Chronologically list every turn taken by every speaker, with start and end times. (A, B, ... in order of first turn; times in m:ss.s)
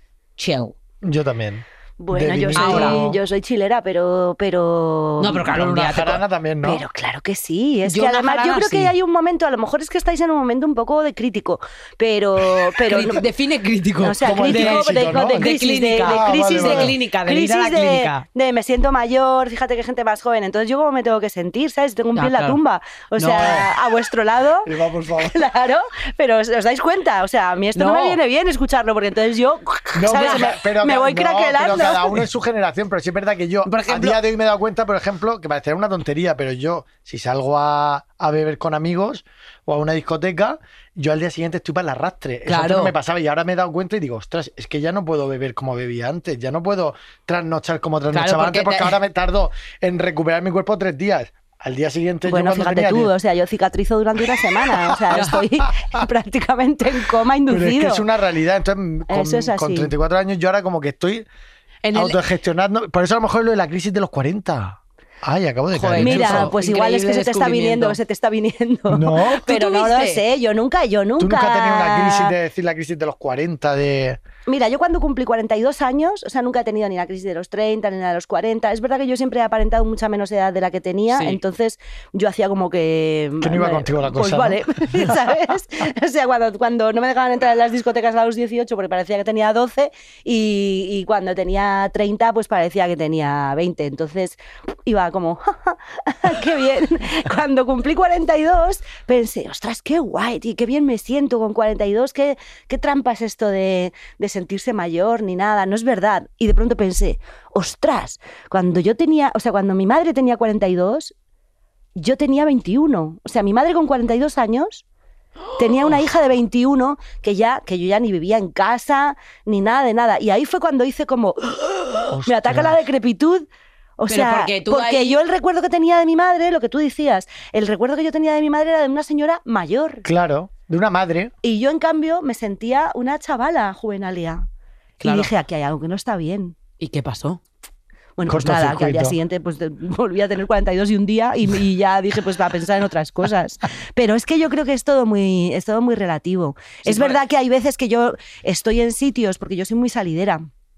0:00.4-0:00.8 A
0:01.0-0:03.2 B
0:02.0-0:05.5 C
0:02.5-0:03.1 A
0:05.2-0:06.2 A
0:05.4-0:06.8 B
0:06.6-0:13.2 C
0:07.8-0:08.9 A
0:12.9-0:18.2 A
0:14.0-0:32.2 C
0:14.2-0:17.0 B
0:22.1-0:22.6 A
0:23.2-0:23.6 A
0:23.4-0:23.7 B
0:24.6-0:25.4 B
0:27.7-0:28.2 A
0:29.9-0:53.1 B
0:30.1-0:30.5 A
0:33.6-0:34.2 A
0:42.4-0:42.9 A
0:48.1-0:49.0 A
0:52.2-0:58.0 C
0:54.9-0:56.0 B
0:55.1-0:55.4 A
0:57.5-1:01.2 B
0:59.1-0:59.9 C
1:01.8-1:02.2 A
1:01.9-1:06.5 B
1:05.7-1:08.0 A
1:06.0-1:12.3 C
1:08.9-1:09.4 B
1:09.4-1:10.2 A
1:11.2-1:14.2 B
1:14.4-1:51.1 C
1:21.1-1:21.4 A
1:23.4-1:25.2 B
1:52.0-1:54.8 C
1:55.5-1:56.0 A
1:55.6-2:03.5 C
2:02.1-2:02.8 B
2:04.0-2:10.0 C
2:04.1-2:05.2 A
2:10.0-2:11.3 B
2:11.4-2:14.4 C
2:15.0-2:15.3 A
2:15.0-2:16.6 C
2:16.8-2:17.4 A
2:18.2-2:30.5 C
2:18.3-2:19.2 B
2:26.8-2:27.2 A